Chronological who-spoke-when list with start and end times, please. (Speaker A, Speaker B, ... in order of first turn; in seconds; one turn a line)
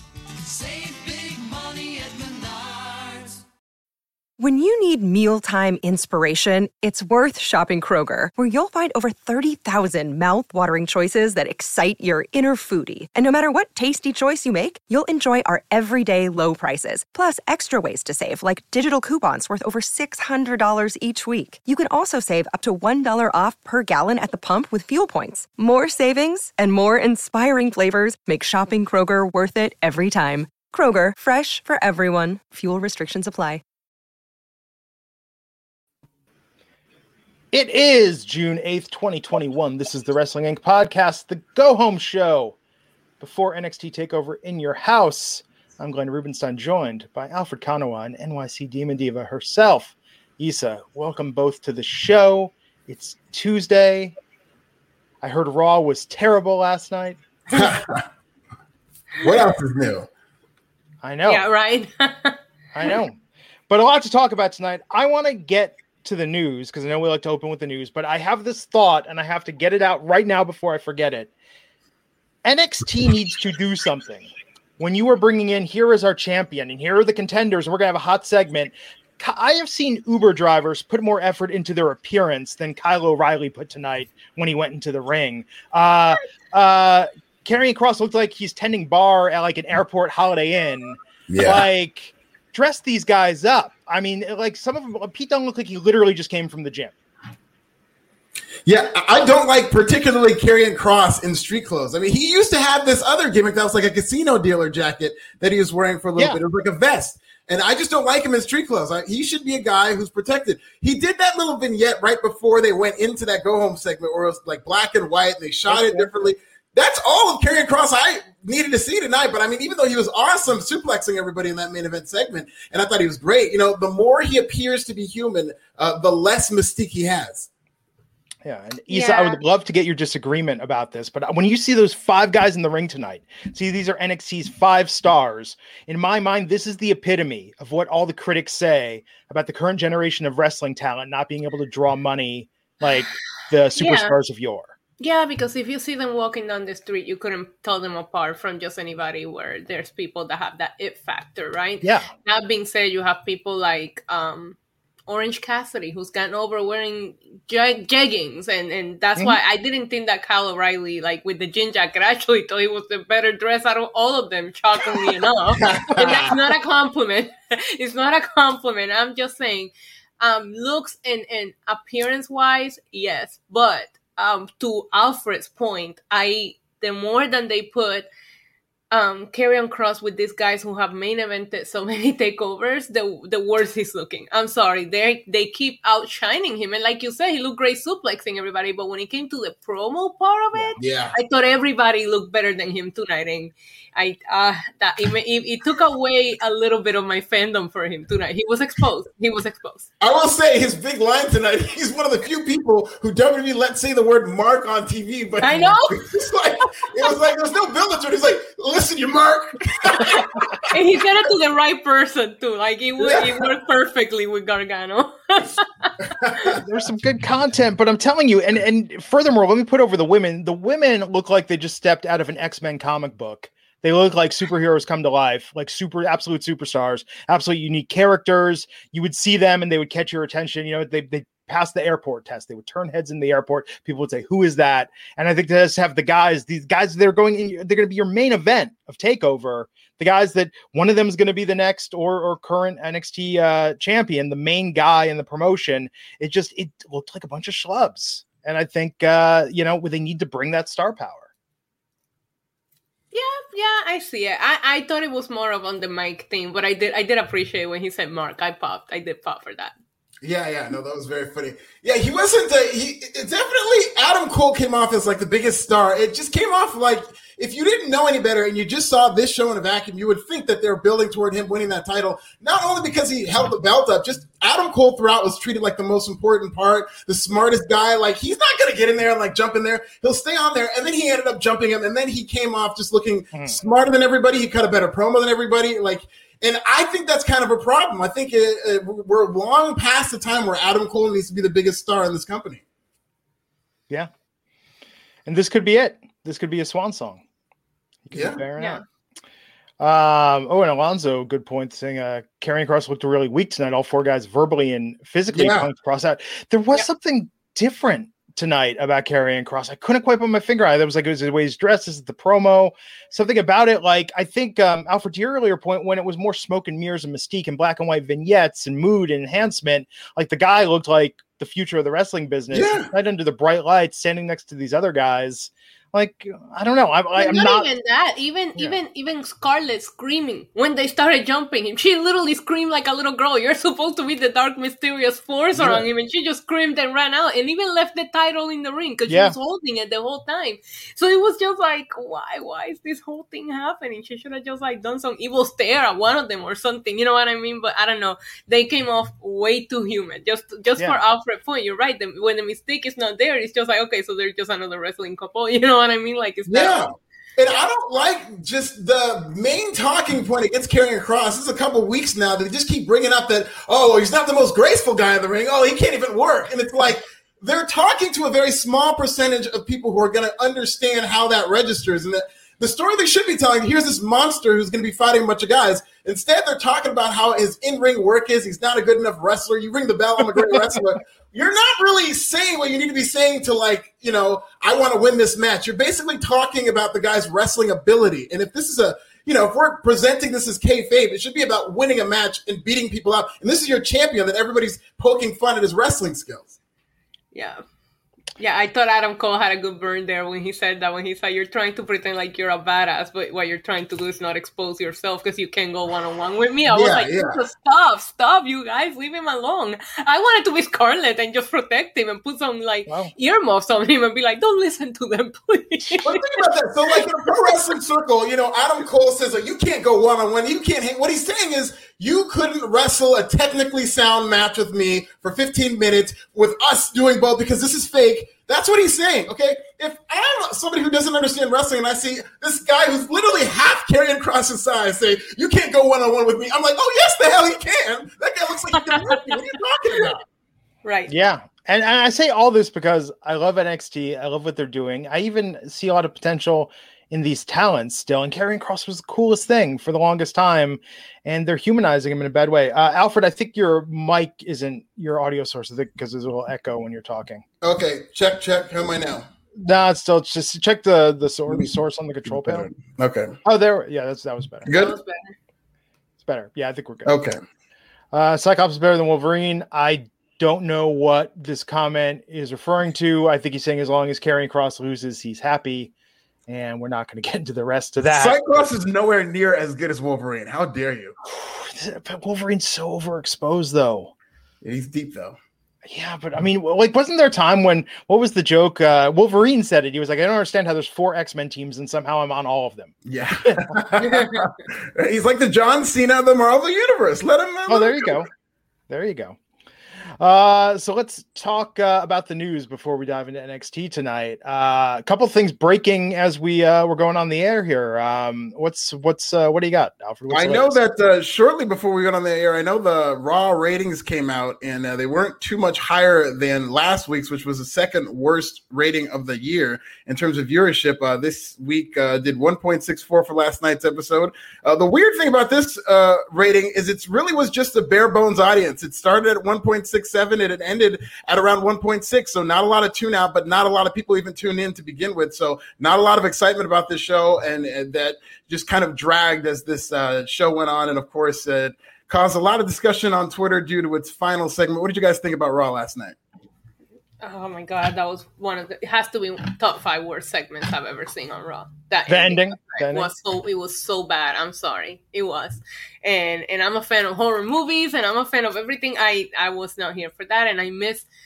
Speaker A: 0.5-2.5
Speaker B: 4.4-33.6
Speaker C: 37.5-42.5
Speaker C: 43.2-54.1
Speaker C: 55.2-57.2
Speaker D: 57.5-58.0
Speaker D: 59.2-60.1
Speaker C: 61.0-61.4
Speaker E: 61.2-62.9
Speaker C: 62.7-71.3
Speaker C: 72.4-96.9
Speaker D: 91.3-91.7
Speaker D: 98.7-127.5
Speaker C: 115.7-116.1
Speaker C: 128.4-144.7
Speaker E: 128.9-129.4
Speaker E: 143.8-144.1
Speaker E: 145.0-154.6
Speaker C: 151.8-152.1
Speaker E: 155.1-178.1
Speaker D: 165.6-166.3
Speaker E: 178.9-199.9
Speaker D: 190.8-191.1
Speaker D: 200.0-210.7
Speaker E: 205.4-206.1
Speaker E: 209.9-215.9
Speaker D: 213.0-213.3
Speaker D: 216.2-216.5
Speaker C: 216.6-251.3
Speaker E: 253.1-259.7
Speaker D: 260.2-292.6
Speaker C: 283.3-283.6
Speaker C: 295.2-297.2
Speaker C: 298.1-298.8
Speaker D: 298.1-298.4
Speaker C: 299.8-327.7
Speaker D: 305.3-305.7
Speaker D: 322.5-322.9
Speaker E: 327.1-356.9
Speaker C: 335.6-335.8
Speaker C: 339.1-339.3
Speaker D: 356.5-396.6
Speaker E: 397.3-397.6
Speaker E: 398.4-417.0
Speaker D: 406.7-407.4
Speaker C: 412.9-413.1
Speaker D: 416.0-440.2
Speaker E: 438.8-439.2
Speaker E: 440.8-441.1
Speaker C: 441.1-457.4
Speaker D: 457.6-459.2
Speaker C: 459.6-462.7
Speaker D: 462.3-463.4
Speaker C: 463.4-464.7
Speaker D: 464.6-464.9
Speaker E: 464.7-465.3
Speaker C: 466.2-467.2
Speaker D: 467.1-467.4
Speaker C: 468.1-475.9
Speaker C: 476.5-478.7
Speaker D: 478.0-481.1
Speaker C: 481.3-484.1
Speaker D: 484.6-485.4
Speaker C: 485.8-492.9
Speaker D: 493.0-498.2
Speaker C: 493.4-493.7
Speaker E: 494.0-494.5
Speaker C: 497.7-498.3
Speaker C: 498.9-499.4
Speaker C: 500.2-510.8
Speaker D: 510.3-546.2
Speaker E: 547.2-561.1
Speaker C: 552.1-553.1